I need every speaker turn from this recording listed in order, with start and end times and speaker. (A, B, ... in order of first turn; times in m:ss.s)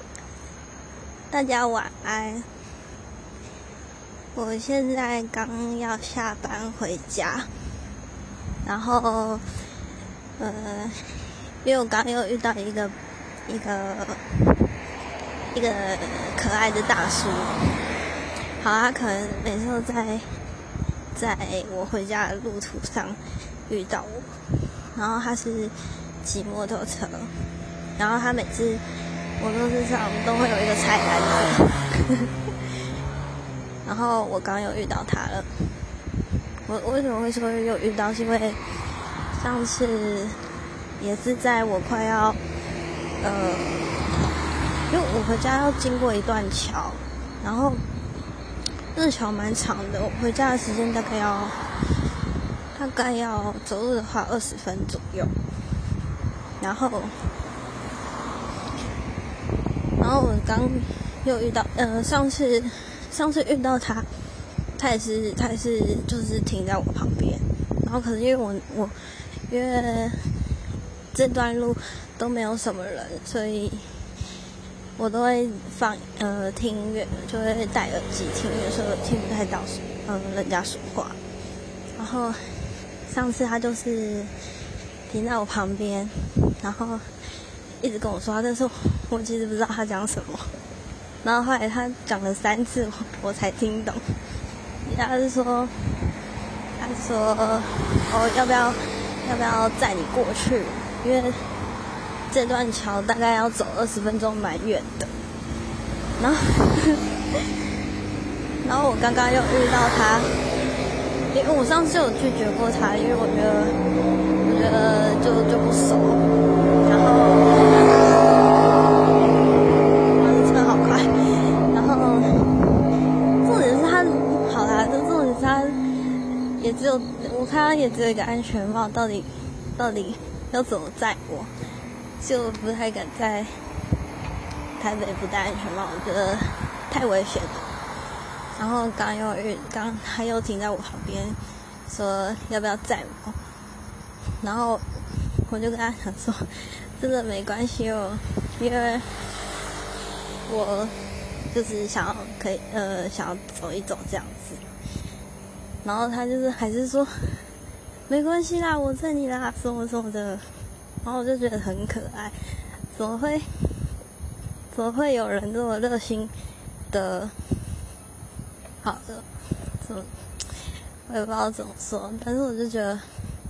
0:01.3-0:02.5 A
0:04.3-0:07.5 A
0:08.6-0:09.4 A
0:10.4-0:14.6 A
0:15.5-0:17.8 A
0:18.6-0:20.4 A
0:21.1-0:27.3 A
0:28.0-0:28.8 A
0:29.4-0:32.3 A
0:33.8-0:35.8 A
0:36.6-0:38.6 A
0:39.3-0:40.5 A
0:41.0-0:42.4 A
0:43.2-0:44.2 A
0:44.9-0:47.8 A
0:48.9-0:51.7 A
0:52.7-0:55.4 A
0:56.6-0:57.2 A
1:00.0-1:04.1 A
1:04.7-1:10.6 A
1:11.1-1:14.1 A
1:15.0-1:21.2 A
1:22.0-1:24.3 A
1:25.1-1:27.2 A
1:27.8-1:30.5 A
1:31.2-1:34.1 A
1:34.8-1:36.1 A
1:36.8-1:41.5 A
1:42.3-1:45.1 A
1:46.2-1:47.0 A
1:48.6-1:50.4 A
1:51.3-1:53.8 A
1:54.4-1:56.3 A
1:56.8-1:58.4 A
2:00.0-2:02.8 A
2:03.4-2:05.8 A
2:06.6-2:11.5 A
2:12.2-2:13.7 A
2:14.8-2:17.7 A
2:18.6-2:23.4 A
2:24.4-2:29.1 A
2:30.5-2:34.6 A
2:35.8-2:37.5 A
2:38.1-2:43.9 A
2:44.7-2:46.3 A
2:46.9-2:47.6 A
2:48.8-2:53.3 A